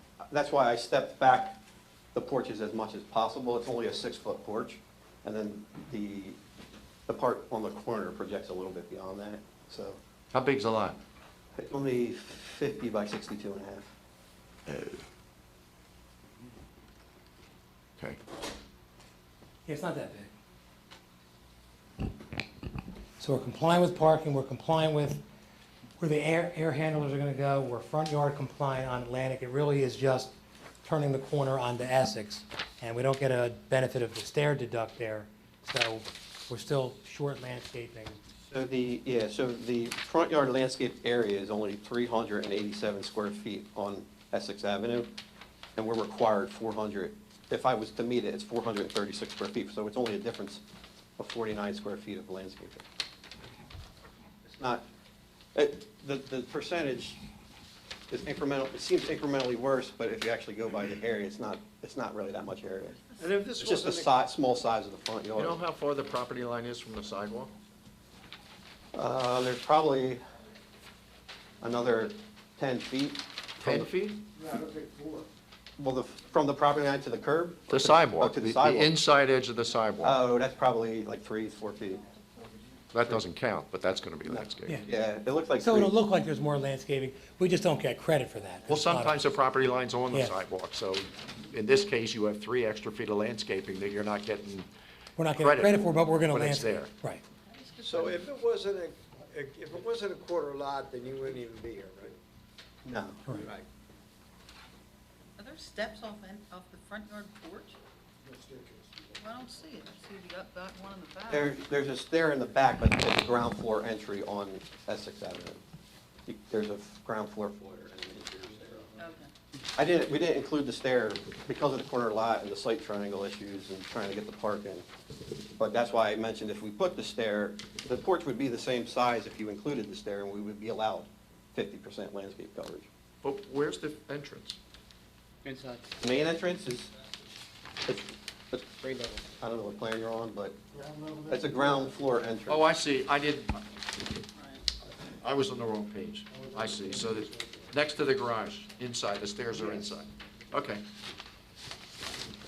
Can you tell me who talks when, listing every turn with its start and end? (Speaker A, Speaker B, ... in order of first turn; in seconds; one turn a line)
Speaker A: 0.3-1.6
Speaker A: 2.1-6.4
Speaker A: 7.1-10.0
Speaker B: 10.3-11.0
Speaker A: 11.6-13.9
Speaker B: 14.7-14.9
Speaker C: 19.7-20.3
Speaker C: 23.2-25.2
Speaker C: 26.0-38.2
Speaker A: 38.5-45.1
Speaker A: 45.8-50.6
Speaker A: 51.2-52.9
Speaker A: 54.5-54.8
Speaker A: 55.5-57.2
Speaker A: 58.1-65.6
Speaker D: 63.2-64.1
Speaker B: 65.4-67.5
Speaker A: 68.9-70.2
Speaker A: 71.6-73.9
Speaker B: 73.6-74.2
Speaker D: 74.3-75.3
Speaker A: 75.8-78.9
Speaker B: 77.7-80.2
Speaker A: 80.0-82.0
Speaker B: 82.9-84.8
Speaker A: 84.3-85.9
Speaker C: 85.6-89.2
Speaker B: 88.7-94.7
Speaker C: 90.1-90.4
Speaker C: 95.2-97.2
Speaker B: 95.4-96.9
Speaker E: 97.5-98.3
Speaker D: 97.9-102.2
Speaker A: 102.8-103.2
Speaker D: 103.3-103.6
Speaker E: 105.4-107.8
Speaker D: 108.3-109.0
Speaker E: 109.2-111.6
Speaker A: 111.3-115.6
Speaker A: 116.3-118.9
Speaker E: 119.0-119.3
Speaker A: 119.8-124.9
Speaker A: 125.6-132.9
Speaker B: 133.2-134.6
Speaker A: 136.0-136.9
Speaker A: 137.9-138.7
Speaker A: 139.4-140.6
Speaker A: 141.2-142.6
Speaker B: 142.5-143.6
Speaker E: 144.4-144.6
Speaker B: 145.2-150.8